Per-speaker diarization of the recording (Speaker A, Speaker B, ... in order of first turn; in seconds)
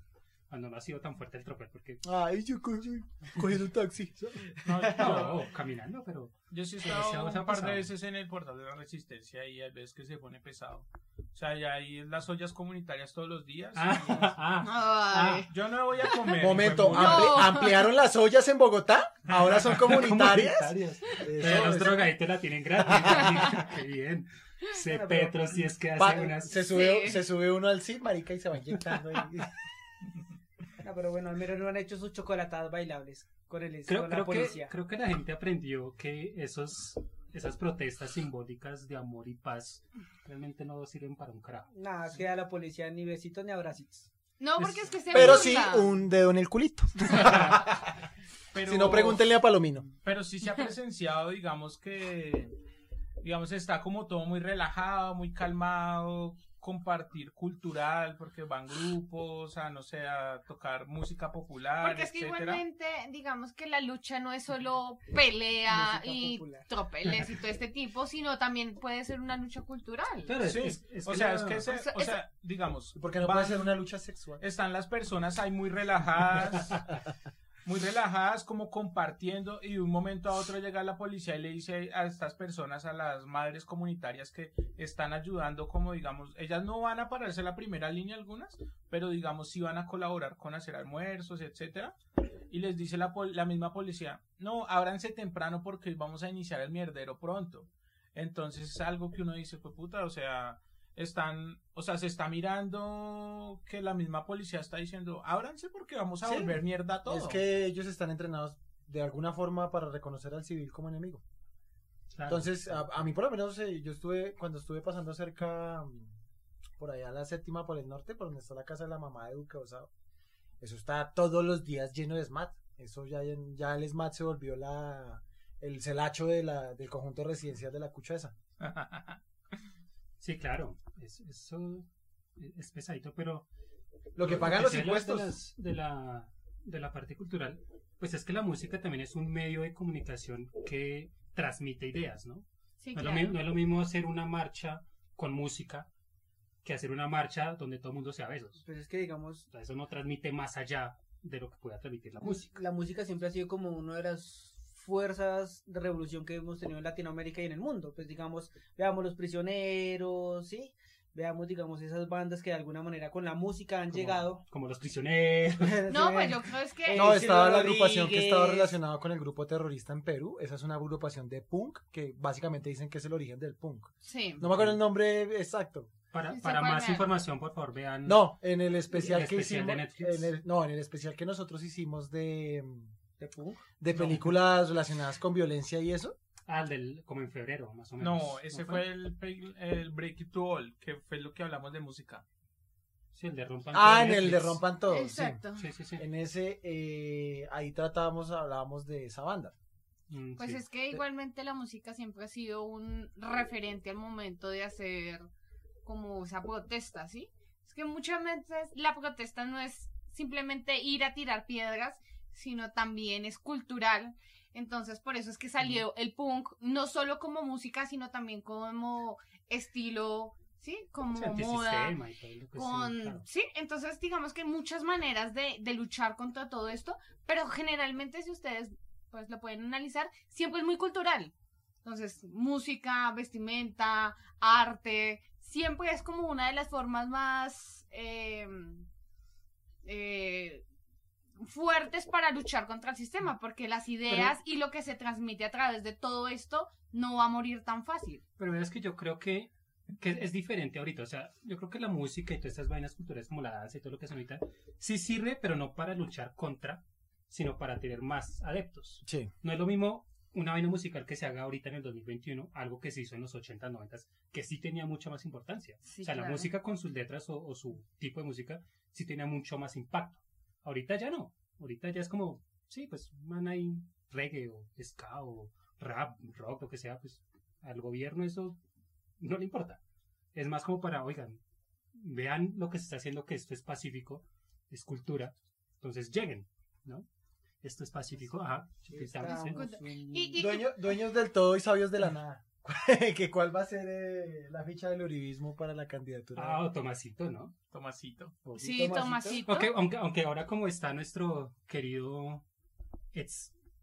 Speaker A: 0.5-2.0, 4.8-7.9, 13.7-15.5, 19.7-26.6, 33.9-41.7, 44.6-45.5, 47.1-47.6, 70.2-71.7, 112.1-112.9, 130.2-133.5, 134.2-145.9, 146.6-148.6, 149.5-152.6, 163.9-165.8, 174.4-174.8, 176.1-178.3, 178.9-180.3, 183.9-184.2, 186.5-188.9, 193.1-194.6, 195.5-196.0, 200.1-200.6, 221.1-223.2, 244.1-244.3, 248.4-278.6, 279.2-279.8, 280.3-281.4, 281.9-287.1, 287.6-289.7, 296.3-297.5, 299.4-302.4, 303.1-303.5
Speaker B: 2.0-4.5, 16.4-22.1, 22.8-23.4, 26.0-29.5, 45.1-47.9, 48.7-49.9, 72.9-74.4, 106.2-111.2, 112.3-116.1, 116.8-119.9, 120.6-128.3, 134.1-135.3, 166.9-175.9, 178.0-182.9, 183.8-186.1, 193.7-195.4, 196.0-199.5, 259.0-259.3, 290.4-296.6
Speaker C: 4.6-5.5, 6.5-14.4, 15.5-17.5, 48.5-49.2, 50.0-52.5, 53.2-62.6, 70.4-73.7, 74.4-76.9, 77.6-91.9, 92.5-107.4, 128.6-129.2, 188.0-192.2, 297.7-298.4
Speaker D: 14.6-15.5, 16.9-17.9, 26.5-27.2, 44.4-46.0, 61.8-70.3, 71.7-72.2, 142.8-143.3, 165.9-167.3, 174.0-174.4, 176.3-177.1, 194.9-195.7, 200.4-205.3, 205.8-221.9, 222.5-231.3, 231.8-238.8, 239.8-240.6, 241.4-248.2, 265.9-266.5, 289.2-290.9, 298.5-299.7
Speaker E: 24.8-25.6, 30.8-34.7, 41.7-44.1, 65.7-66.7, 148.6-149.5, 152.2-164.4, 165.6-168.8, 183.2-183.6, 288.9-290.5, 298.5-299.4